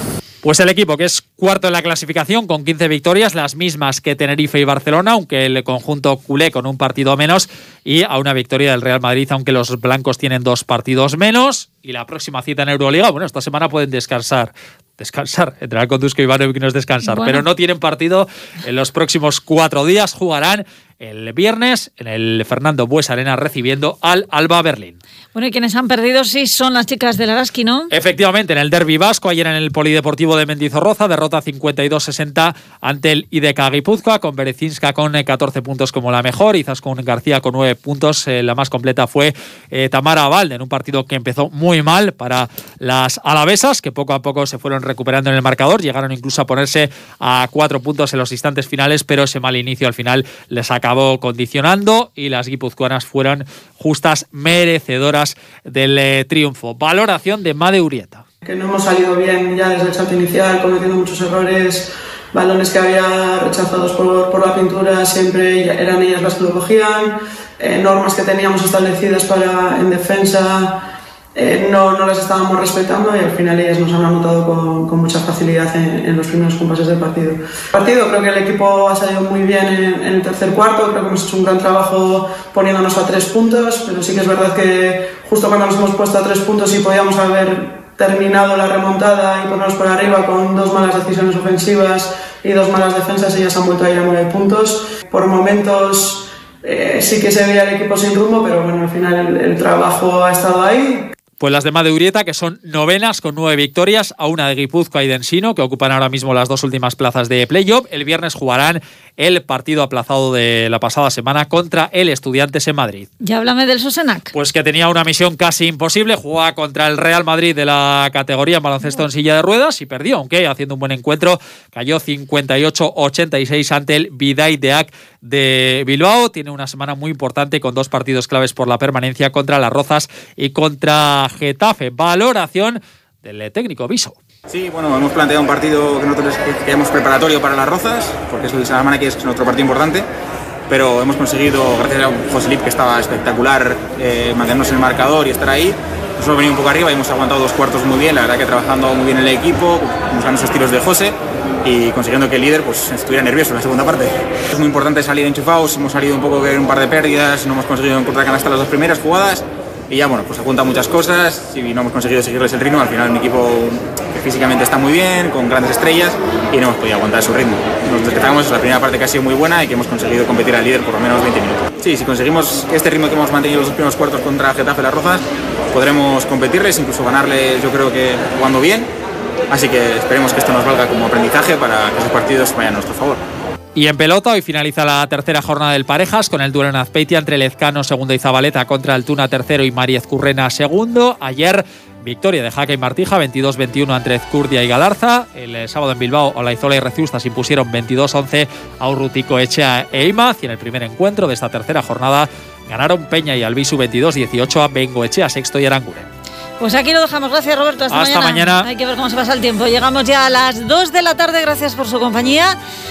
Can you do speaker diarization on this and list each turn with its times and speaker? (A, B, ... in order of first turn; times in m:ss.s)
0:00.4-0:25.0 A
0:17.1-0:17.4 B
0:25.3-0:27.9 B
0:27.9-0:58.2 A
0:58.4-1:10.8 C
1:11.3-1:41.1 C
1:41.4-1:53.1 A
1:53.2-1:54.3 B
1:54.3-2:14.2 A
2:14.5-2:20.1 D
2:20.7-2:58.9 D
2:59.5-3:03.2 D
3:03.7-3:26.1 A
3:26.6-3:32.5 B
3:27.9-3:28.7 A